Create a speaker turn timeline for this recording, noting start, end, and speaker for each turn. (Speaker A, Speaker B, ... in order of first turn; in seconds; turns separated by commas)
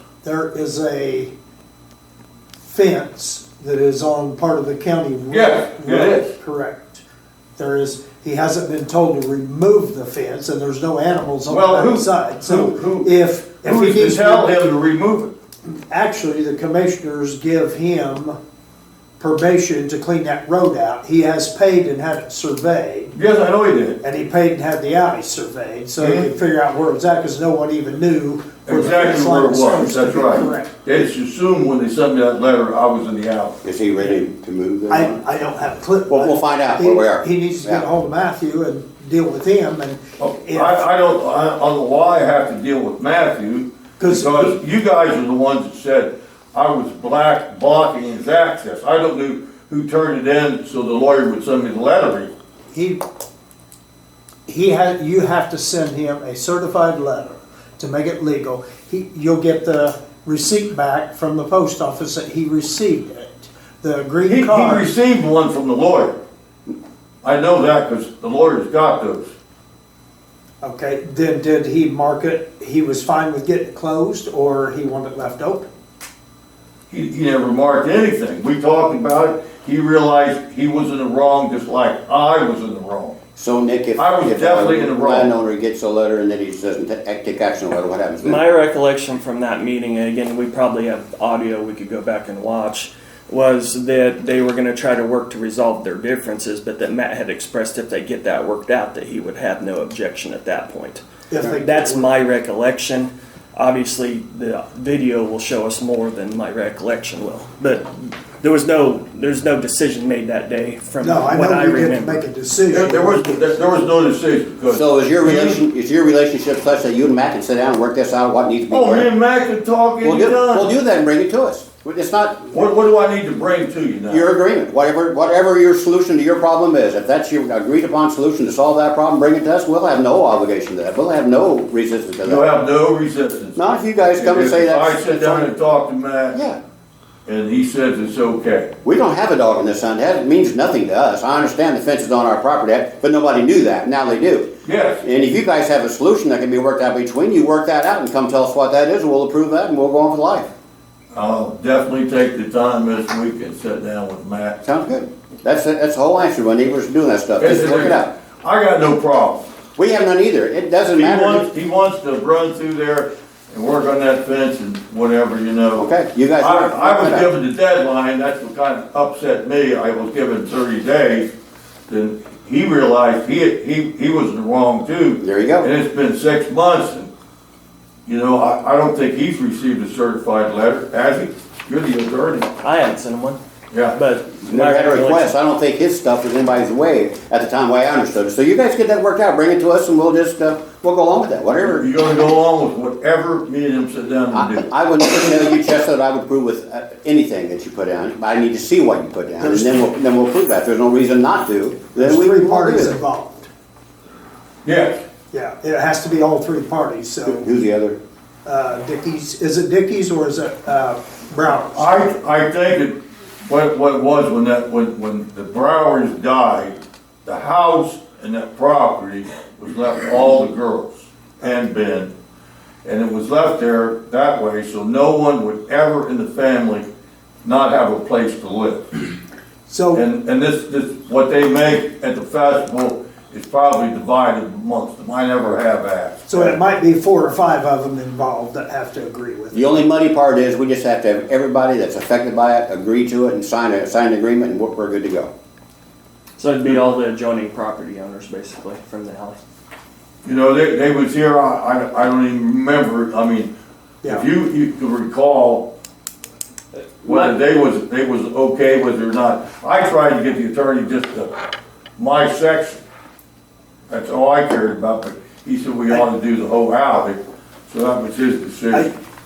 Speaker A: 0.2-1.3, Speaker A: 2.7-7.0, Speaker B: 5.3-6.3, Speaker A: 7.6-14.7, Speaker B: 11.5-15.3, Speaker A: 15.7-18.4, Speaker A: 19.2-23.1, Speaker B: 23.1-24.0, Speaker A: 24.0-31.0, Speaker B: 26.0-26.2, Speaker B: 28.6-33.6, Speaker C: 33.6-35.2, Speaker A: 34.9-40.8, Speaker C: 36.1-37.8, Speaker B: 40.2-52.3, Speaker A: 44.0-44.6, Speaker A: 52.7-53.0, Speaker A: 54.5-64.9, Speaker B: 64.3-66.2, Speaker B: 67.2-69.3, Speaker A: 70.6-75.7, Speaker B: 76.9-83.2, Speaker C: 83.3-88.4, Speaker B: 84.0-85.3, Speaker D: 88.2-112.2, Speaker A: 101.3-102.1, Speaker A: 111.0-113.6, Speaker B: 112.7-115.6, Speaker C: 114.7-119.1, Speaker B: 118.7-120.7, Speaker C: 120.0-122.7, Speaker B: 122.5-124.3, Speaker C: 124.1-132.5, Speaker B: 132.2-136.4, Speaker C: 133.6-135.5, Speaker C: 136.3-136.6, Speaker B: 137.2-138.7, Speaker C: 138.8-150.5, Speaker B: 144.6-145.0, Speaker B: 151.1-154.6, Speaker C: 154.6-158.1, Speaker B: 157.4-159.5, Speaker C: 159.8-161.5, Speaker B: 160.9-165.9, Speaker C: 165.8-167.3, Speaker B: 166.4-171.3, Speaker B: 171.9-177.1, Speaker C: 175.2-175.7, Speaker B: 178.1-182.5, Speaker D: 182.6-183.4, Speaker B: 183.7-184.0, Speaker D: 183.9-185.3, Speaker C: 184.4-191.9, Speaker B: 191.6-194.7, Speaker C: 194.3-202.9, Speaker A: 199.4-199.8, Speaker A: 201.9-203.5, Speaker B: 204.6-205.0, Speaker A: 205.3-207.4, Speaker C: 207.2-208.0, Speaker A: 208.4-211.9, Speaker B: 211.7-222.1, Speaker B: 222.8-226.9, Speaker B: 227.4-229.1, Speaker A: 229.7-230.0, Speaker B: 229.9-236.6, Speaker A: 236.3-239.8, Speaker C: 239.5-245.3, Speaker D: 246.4-249.4, Speaker B: 250.2-253.5, Speaker B: 254.0-255.7, Speaker D: 257.0-257.3, Speaker B: 257.0-261.3, Speaker B: 262.0-262.8, Speaker B: 263.9-268.9